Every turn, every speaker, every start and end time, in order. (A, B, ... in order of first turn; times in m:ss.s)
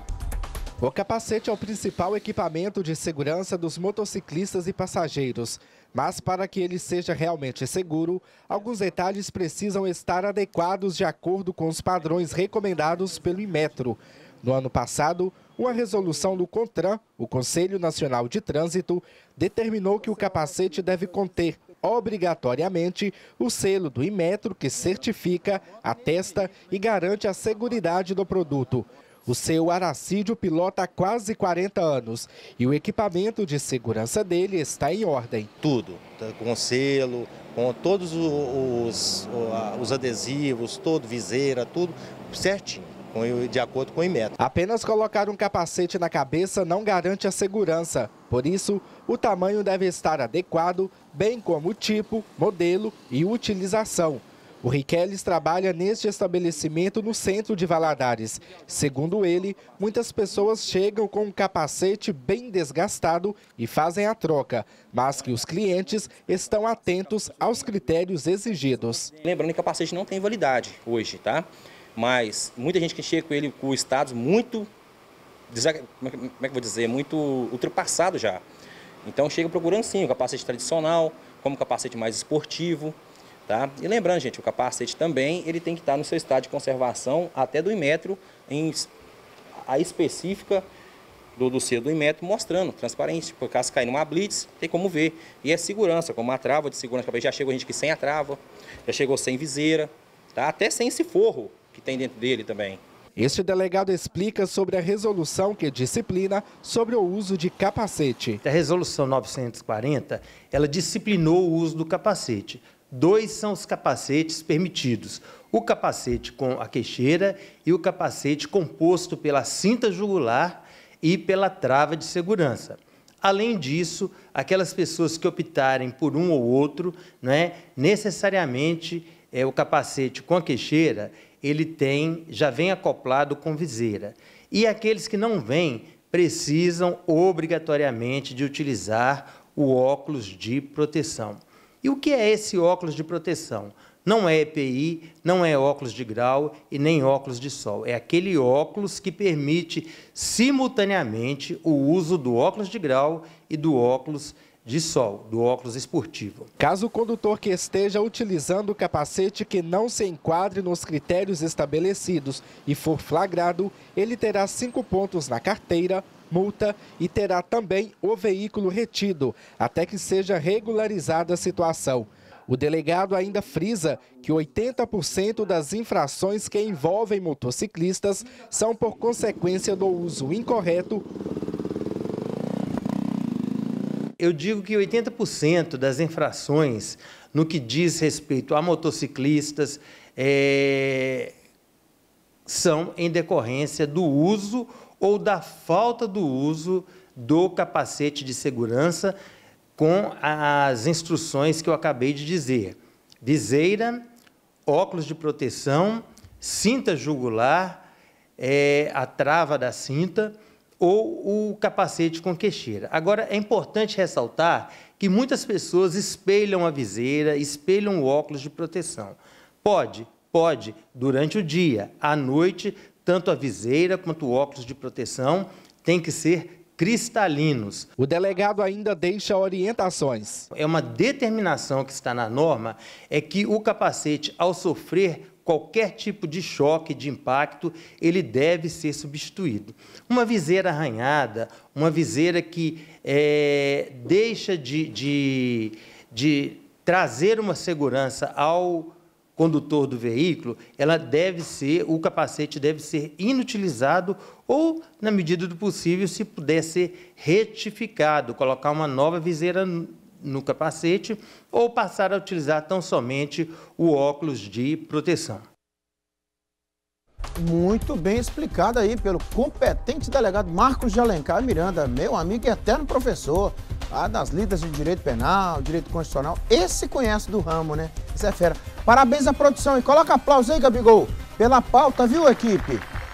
0:00.8-0:35.5 A
0:35.6-0:44.4 B
0:44.4-1:09.1 A
1:09.2-1:14.7 C
1:15.5-1:18.4 C
1:19.0-1:28.9 C
1:29.6-1:30.7 C
1:31.4-1:42.8 C
1:43.2-1:48.4 A
1:48.4-2:36.5 D
2:36.6-3:01.0 A
3:04.2-3:11.4 D
3:12.5-3:19.1 D
3:19.8-3:24.0 D
3:24.7-3:27.9 D
3:28.4-3:47.9 D
3:48.0-3:50.4 A
3:50.5-4:25.4 D
4:27.4-4:42.8 E